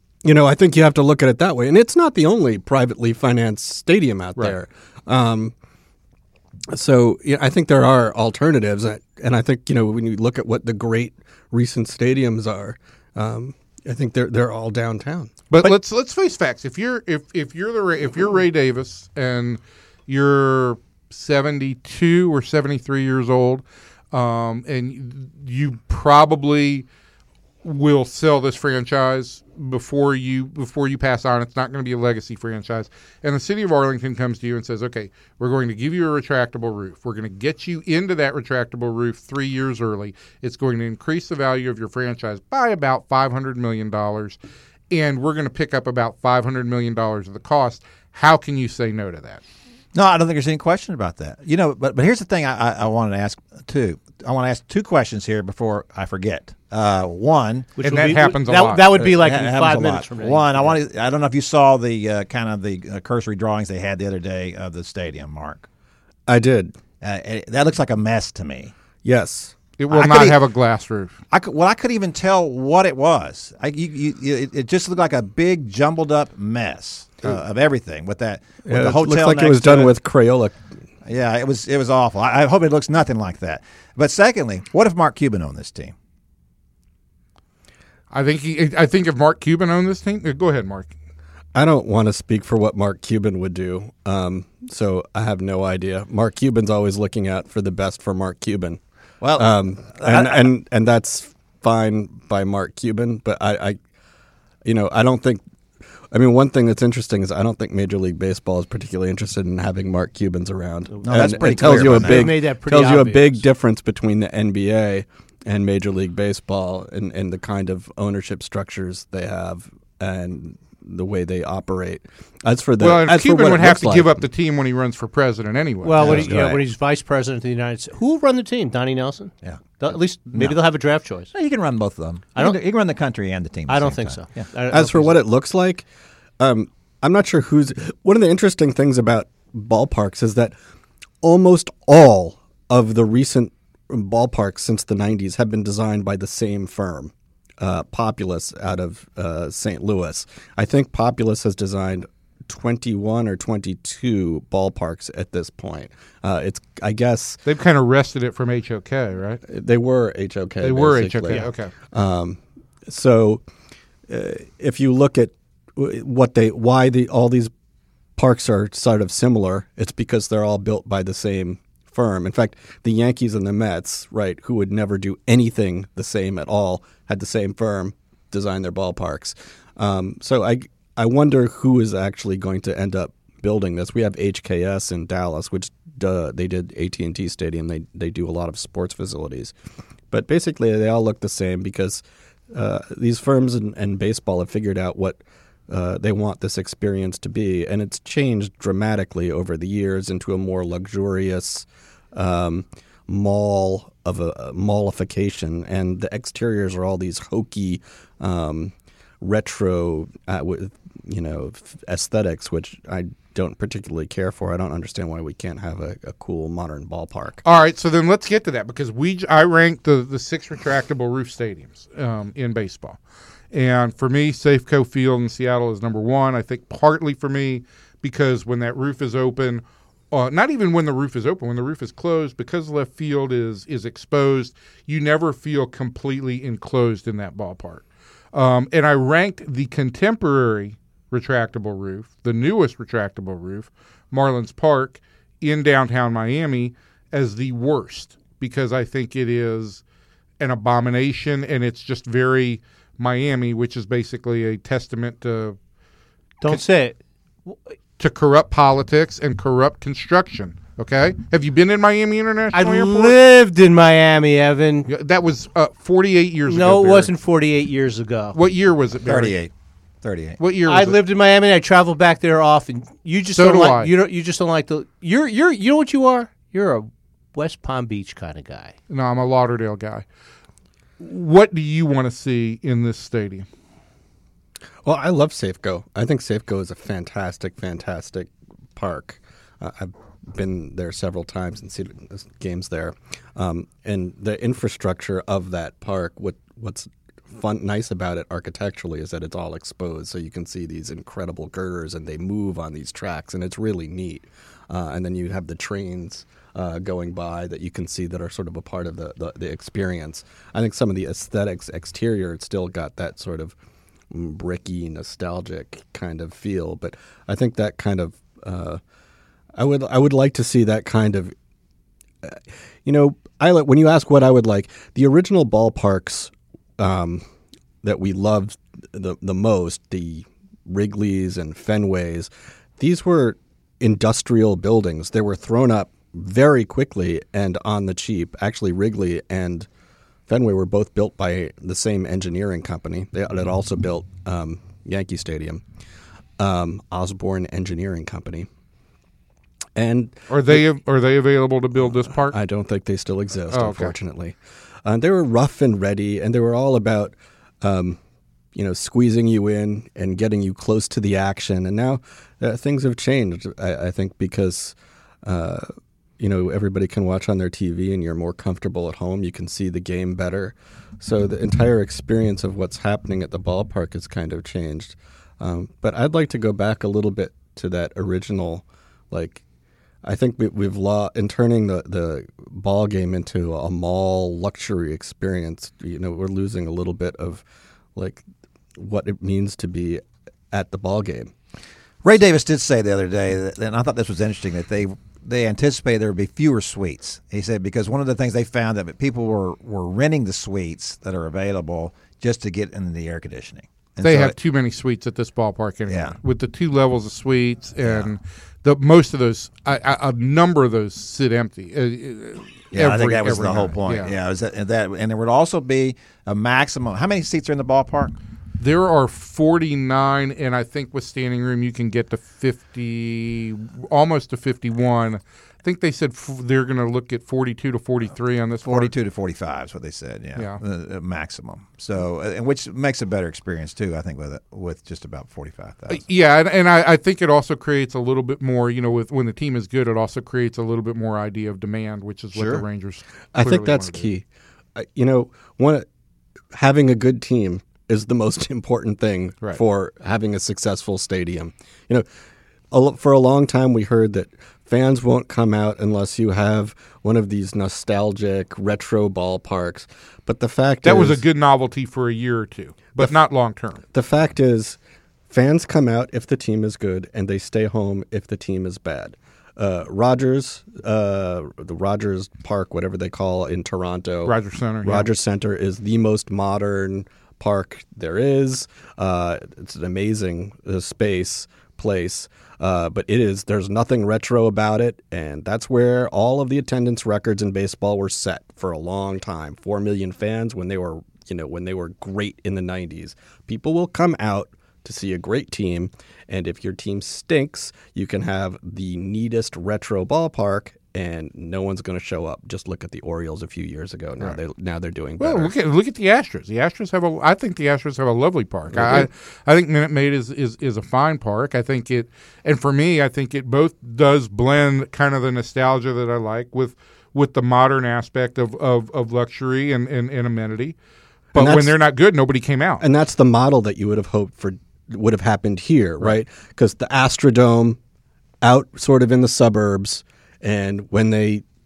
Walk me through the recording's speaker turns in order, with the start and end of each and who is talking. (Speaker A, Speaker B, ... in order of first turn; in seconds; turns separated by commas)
Speaker A: 0.2-5.5, Speaker A: 6.7-15.7, Speaker B: 15.5-26.9, Speaker B: 27.6-44.4, Speaker B: 44.9-49.4, Speaker C: 49.9-57.7, Speaker D: 57.8-60.7, Speaker B: 57.8-58.9, Speaker C: 58.9-65.7, Speaker A: 66.3-66.7, Speaker C: 67.0-68.7, Speaker A: 69.0-69.5, Speaker B: 69.8-71.1, Speaker C: 69.9-70.4, Speaker C: 71.3-79.9, Speaker A: 78.6-80.5, Speaker C: 81.0-85.9, Speaker B: 88.1-90.9, Speaker A: 91.5-98.8, Speaker C: 99.2-100.4, Speaker A: 99.3-103.8, Speaker A: 104.6-105.4, Speaker A: 106.1-124.2, Speaker C: 111.0-112.3, Speaker D: 111.2-113.4, Speaker B: 122.8-126.3, Speaker D: 125.8-131.3, Speaker A: 126.0-126.6, Speaker C: 129.4-130.6, Speaker C: 131.3-134.4, Speaker D: 133.7-135.2, Speaker A: 134.7-135.8, Speaker A: 136.4-140.5, Speaker A: 141.2-157.4, Speaker B: 157.4-159.4, Speaker A: 159.4-163.4, Speaker B: 160.6-161.7, Speaker A: 164.1-167.5, Speaker A: 168.2-189.5, Speaker A: 190.1-217.4, Speaker B: 217.4-223.0, Speaker B: 223.5-249.8, Speaker B: 250.4-255.6, Speaker D: 256.4-257.6, Speaker B: 258.0-263.1, Speaker D: 262.5-264.9, Speaker B: 264.9-267.1, Speaker D: 266.5-268.4, Speaker B: 268.3-269.3, Speaker C: 269.1-269.5, Speaker C: 270.0-270.4, Speaker B: 270.4-271.0, Speaker D: 270.6-278.7, Speaker B: 273.3-273.9, Speaker B: 278.9-280.0, Speaker B: 281.0-283.4, Speaker A: 284.8-313.5, Speaker A: 314.1-318.8, Speaker A: 319.6-321.3, Speaker A: 322.2-327.2, Speaker A: 327.8-339.7, Speaker A: 340.3-345.6, Speaker A: 346.4-348.5, Speaker A: 349.8-350.6, Speaker B: 350.3-352.4, Speaker A: 351.8-358.0, Speaker B: 353.5-353.9, Speaker A: 358.5-379.4, Speaker A: 380.0-387.4, Speaker A: 387.9-388.2, Speaker A: 388.8-391.3, Speaker C: 392.0-404.3, Speaker B: 404.0-414.1, Speaker C: 405.9-406.2, Speaker C: 407.8-408.1, Speaker C: 412.7-418.1, Speaker B: 418.6-428.9, Speaker C: 428.6-436.0, Speaker B: 435.9-444.1, Speaker A: 443.3-445.9, Speaker A: 446.5-452.0, Speaker A: 452.7-461.2, Speaker B: 460.8-463.8, Speaker A: 463.9-464.8, Speaker A: 465.3-505.5, Speaker B: 474.2-475.1, Speaker B: 505.2-520.7, Speaker A: 508.7-509.1, Speaker A: 521.3-521.8, Speaker B: 521.3-522.8, Speaker A: 522.8-527.8, Speaker A: 528.4-531.4